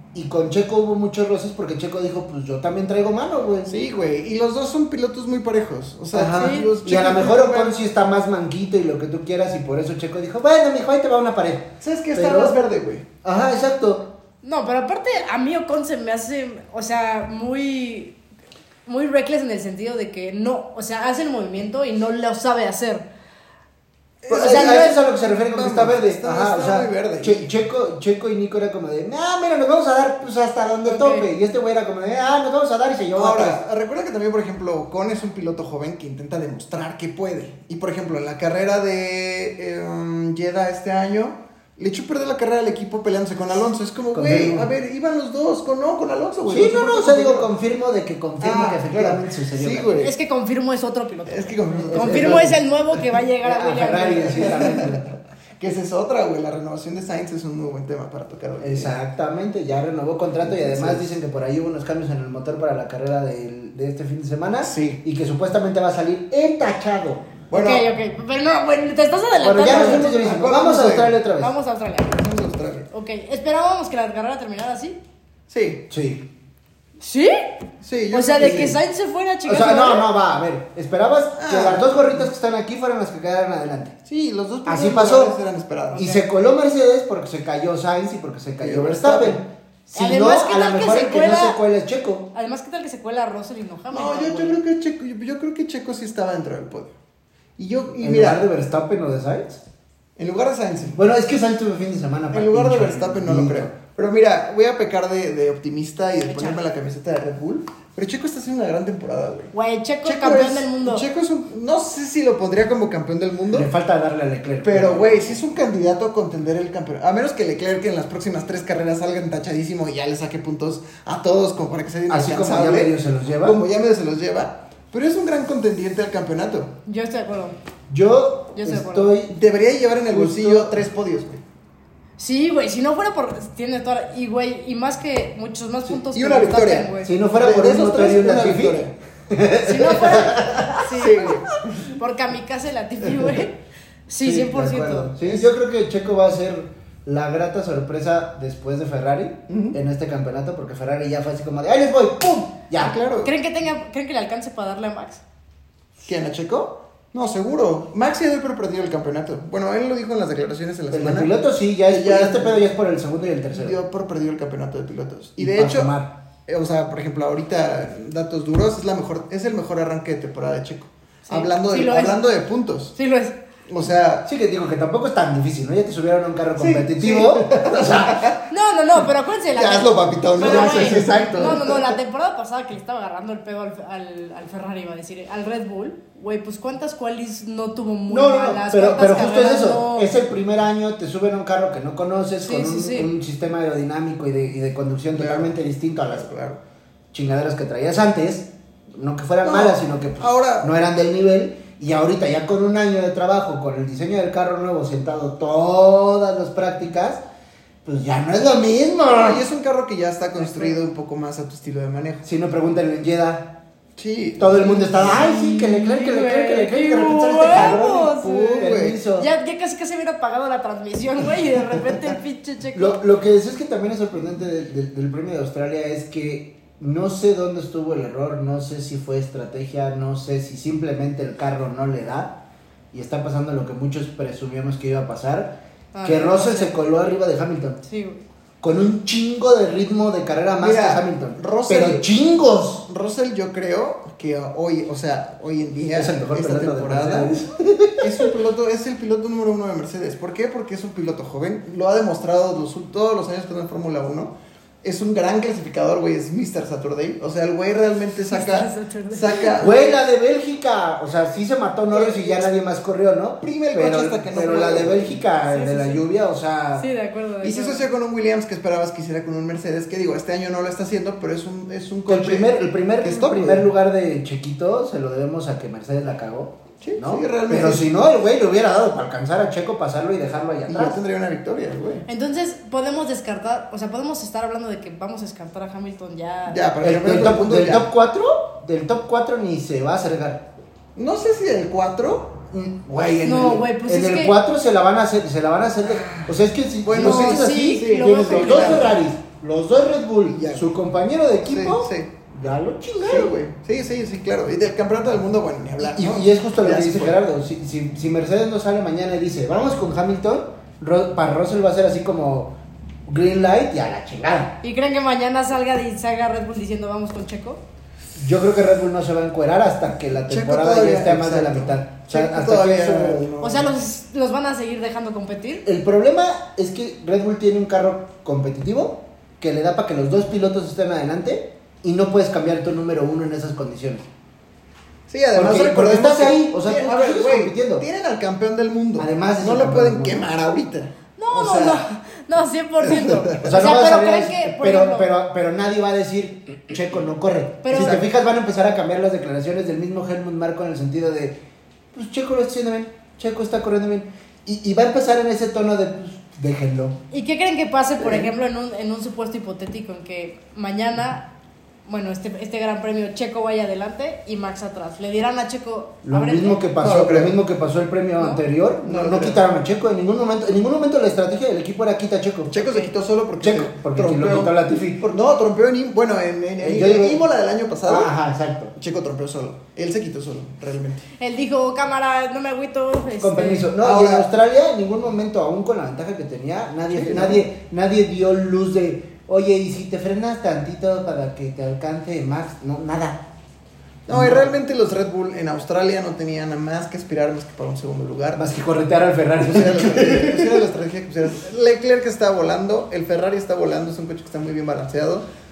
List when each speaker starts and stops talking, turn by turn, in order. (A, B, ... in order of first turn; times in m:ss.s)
0:00.1-0:03.7 A
0:03.7-0:07.8 B
0:06.1-0:12.6 A
0:06.3-0:06.7 C
0:11.8-0:13.0 B
0:13.2-0:14.1 A
0:14.4-0:18.2 C
0:18.9-0:23.1 C
0:24.2-0:27.5 B
0:24.3-0:33.6 A
0:30.8-0:31.3 C
0:33.2-0:47.5 B
0:44.1-0:44.7 A
0:46.5-0:50.0 A
0:48.4-0:50.1 B
0:50.0-0:54.8 C
0:51.3-0:52.6 B
0:51.9-0:52.6 A
0:53.4-0:55.0 A
0:54.3-0:59.0 B
0:58.6-1:07.4 A
1:00.4-1:01.1 B
1:04.6-1:05.0 B
1:07.5-1:07.9 B
1:07.5-1:10.3 C
1:09.4-1:11.5 A
1:09.6-1:11.2 B
1:11.4-1:12.2 C
1:12.0-1:12.9 B
1:12.9-1:15.0 C
1:15.5-1:15.8 B
1:15.9-1:16.3 A
1:17.0-1:17.5 C
1:17.8-1:18.8 B
1:18.1-1:20.1 C
1:18.4-1:18.8 A
1:19.5-1:24.0 A
1:21.4-1:22.3 B
1:24.1-1:26.1 B
1:24.7-1:25.4 A
1:25.9-1:26.2 C
1:25.9-1:32.3 A
1:28.6-1:29.4 B
1:29.9-1:31.6 C
1:32.3-1:34.6 C
1:33.9-1:36.9 B
1:37.6-1:38.4 B
1:38.0-1:39.6 A
1:40.2-1:41.0 B
1:40.9-1:43.7 A
1:42.3-1:49.5 B
1:46.2-1:46.6 C
1:49.5-1:51.0 C
1:50.0-1:53.7 B
1:53.5-1:55.4 A
1:54.6-2:06.8 B
2:02.1-2:03.6 A
2:06.9-2:07.6 C
2:07.9-2:09.4 A
2:08.6-2:09.1 C
2:09.3-2:11.4 B
2:10.1-2:10.9 A
2:12.2-2:17.2 C
2:15.9-2:18.9 B
2:17.0-2:20.8 A
2:19.6-2:25.1 C
2:20.8-2:21.6 B
2:24.2-2:33.0 A
2:25.2-2:25.5 B
2:29.5-2:29.8 B
2:32.8-2:33.3 B
2:33.2-2:35.2 C
2:36.0-2:41.3 B
2:40.9-2:43.8 A
2:41.9-2:42.6 B
2:43.6-2:45.9 B
2:45.4-2:46.1 A
2:46.5-2:53.0 B
2:51.3-2:52.2 C
2:53.0-2:53.4 C
2:53.7-2:54.3 B
2:54.2-2:58.3 A
2:56.6-2:58.5 B
2:58.5-3:10.1 C
2:59.5-3:02.0 B
3:00.4-3:01.6 A
3:08.1-3:16.3 A
3:12.4-3:13.1 C
3:15.1-3:16.6 B
3:17.1-3:27.2 A
3:19.4-3:20.7 B
3:27.8-3:29.4 A
3:29.1-3:32.2 B
3:30.4-3:30.8 C
3:32.2-3:33.6 A
3:34.0-3:35.3 B
3:34.4-3:39.3 A
3:35.0-3:43.0 C
3:37.5-3:37.8 B
3:38.4-3:39.0 B
3:42.7-3:57.8 A
3:55.9-3:56.8 C
3:57.8-3:58.2 C
3:58.6-4:02.9 A
4:00.6-4:02.1 B
4:02.9-4:07.3 B
4:05.9-4:08.3 A
4:08.0-4:20.0 B
4:18.3-4:19.6 C
4:19.6-4:26.9 A
4:21.9-4:22.5 B
4:23.4-4:25.2 B
4:25.5-4:26.0 C
4:26.8-4:27.8 C
4:27.4-4:33.7 B
4:32.1-4:41.0 A
4:36.8-4:37.9 B
4:40.7-4:42.1 B
4:42.1-4:46.6 C
4:46.5-4:47.9 B
4:46.8-4:50.5 A
4:51.0-4:52.4 B
4:52.5-5:03.4 A
4:53.2-4:54.4 C
4:55.9-4:56.3 B
4:56.8-4:59.0 B
4:57.0-4:59.0 C
5:00.3-5:00.8 B
5:01.4-5:02.1 B
5:03.0-5:07.2 B
5:05.8-5:14.6 A
5:14.6-5:17.6 C
5:18.2-5:23.3 A
5:20.2-5:23.7 B
5:23.4-5:25.6 C
5:25.6-5:34.1 A
5:35.1-5:41.9 B
5:35.4-5:37.8 A
5:39.0-5:40.3 A
5:41.2-5:45.1 C
5:42.8-5:43.6 B
5:43.4-5:51.4 A
5:47.6-5:48.0 C
5:47.8-5:48.0 B
5:51.9-5:57.0 A
5:57.1-6:01.3 C
5:58.0-5:58.3 A
6:01.9-6:06.6 C
6:06.0-6:12.6 A
6:06.8-6:07.4 B
6:08.2-6:08.4 C
6:08.8-6:09.4 B
6:12.5-6:18.1 B
6:12.6-6:12.9 C
6:13.4-6:15.1 A
6:16.6-6:17.2 A
6:17.8-6:18.7 A
6:18.8-6:21.1 B
6:21.2-6:23.7 C
6:23.2-6:33.3 A
6:23.8-6:24.3 B
6:26.9-6:27.5 B
6:34.1-6:38.5 B
6:34.1-6:34.5 A
6:38.4-6:40.7 A
6:39.4-6:45.3 B